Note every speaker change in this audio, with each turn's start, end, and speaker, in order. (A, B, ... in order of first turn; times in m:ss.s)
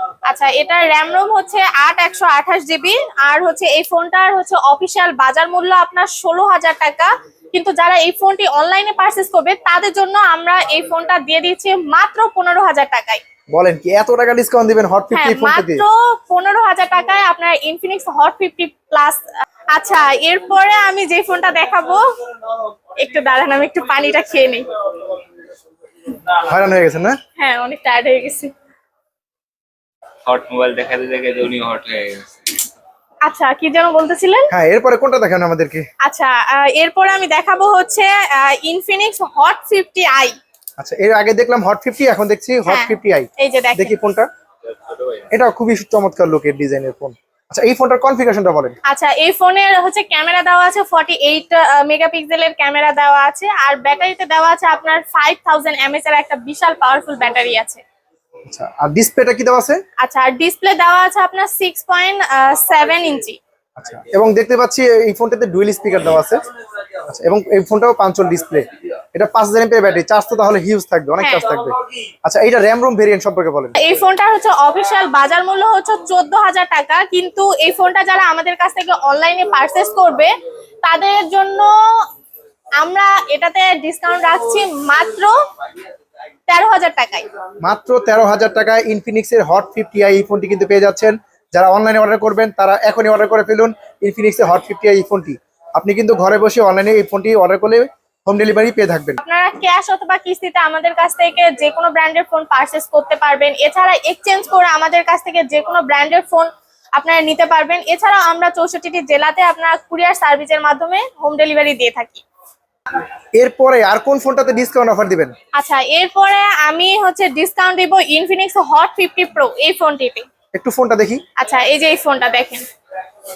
0:00.2-0:13.2 A
0:13.5-0:15.8 B
0:15.1-0:22.0 A
0:23.0-0:25.1 A
0:26.2-0:27.2 B
0:27.4-0:28.5 A
0:30.2-0:32.6 C
0:33.2-0:34.5 A
0:34.5-0:35.8 B
0:36.0-0:40.4 A
0:40.8-0:44.3 B
0:42.7-0:43.9 A
0:45.3-0:48.8 B
0:48.8-0:57.8 A
0:58.5-0:59.8 B
1:00.0-1:03.4 A
1:03.8-1:06.4 B
1:07.1-1:11.7 B
1:11.2-1:11.5 A
1:12.2-1:13.9 B
1:13.8-1:20.3 A
1:20.8-1:22.0 A
1:22.8-1:25.3 A
1:26.5-1:27.2 A
1:27.6-1:39.2 B
1:39.2-1:52.2 A
1:53.4-1:55.3 B
1:55.5-2:00.2 A
2:00.5-2:01.2 B
2:01.4-2:02.6 A